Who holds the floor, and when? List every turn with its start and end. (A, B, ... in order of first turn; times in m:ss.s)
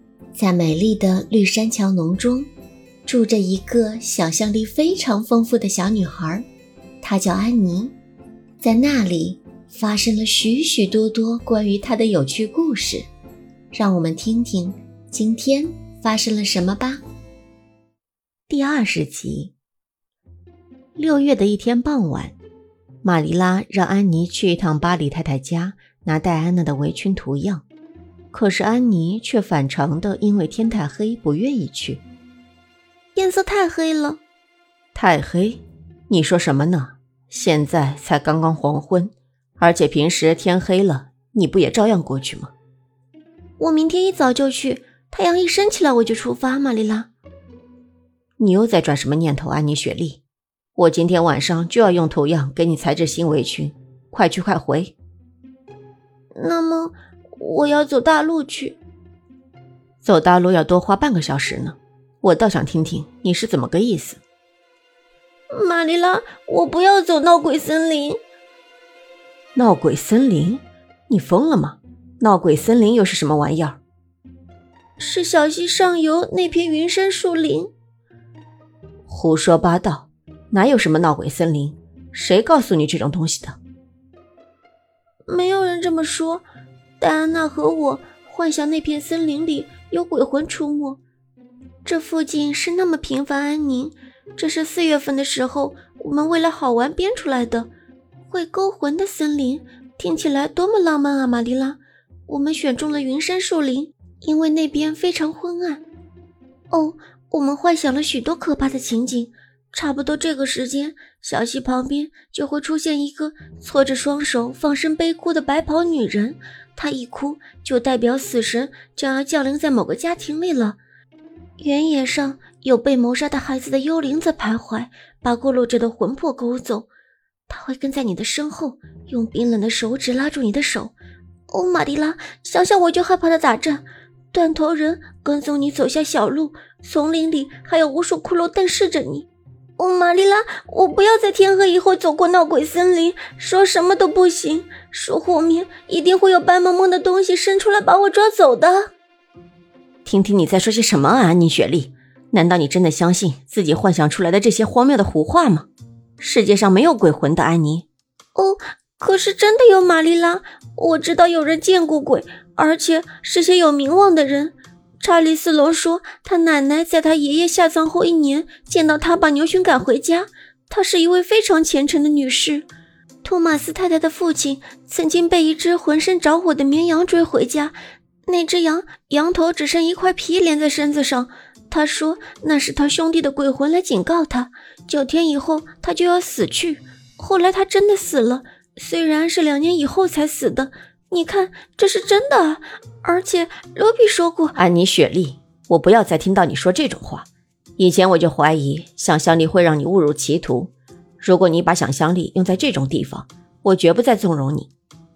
0:00.4-0:02.5 A
0:03.1-0:06.4 A
0:07.0-0:08.0 A
0:08.6-0:13.1 A
0:13.7-0:17.0 A
0:18.5-0:19.5 A
0:21.0-0:22.4 A
0:23.0-0:27.6 A
0:28.3-0:32.0 A
0:33.2-0:34.2 B
0:34.9-0:42.5 A
0:43.6-0:47.1 B
0:44.5-0:46.3 A
0:48.4-0:50.2 A
0:50.8-0:55.0 A
0:56.4-0:58.8 B
1:00.0-1:04.2 A
1:05.5-1:08.2 B
1:09.6-1:13.8 A
1:15.0-1:17.7 B
1:19.1-1:23.6 A
1:25.3-1:26.4 B
1:27.0-1:31.0 B
1:28.0-1:28.3 A
1:29.6-1:29.9 A
1:31.9-1:37.7 B
1:32.2-1:32.8 A
1:33.4-1:33.9 A
1:35.7-1:36.0 A
1:38.3-1:41.8 B
1:40.3-1:41.1 A
1:42.3-1:45.8 B
1:42.6-1:43.9 A
1:44.4-1:45.3 A
1:46.7-2:00.3 B
1:47.8-1:48.3 A
1:50.1-1:54.4 A
1:55.0-1:56.0 A
1:56.8-2:00.8 A
2:01.6-2:03.4 B
2:02.3-2:04.3 A
2:04.1-2:06.9 B
2:05.5-2:06.9 A
2:07.5-2:10.9 B
2:07.9-2:10.9 A
2:11.5-2:13.8 B
2:12.0-2:13.2 A
2:14.3-2:19.3 B
2:15.0-2:15.9 A
2:19.8-2:28.9 B
2:30.0-2:35.7 A
2:36.2-2:37.9 A
2:38.4-2:52.7 B
2:42.5-2:43.2 A
2:53.2-2:57.7 B
2:53.6-2:54.0 A
2:54.6-2:55.4 A
2:56.0-2:56.5 A
2:58.3-3:14.4 B
2:58.7-2:59.5 A
3:00.3-3:01.1 A
3:02.1-3:04.4 A
3:05.3-3:06.1 A
3:08.0-3:08.9 A
3:11.3-3:11.8 A
3:14.3-3:17.3 A
3:17.8-3:24.7 A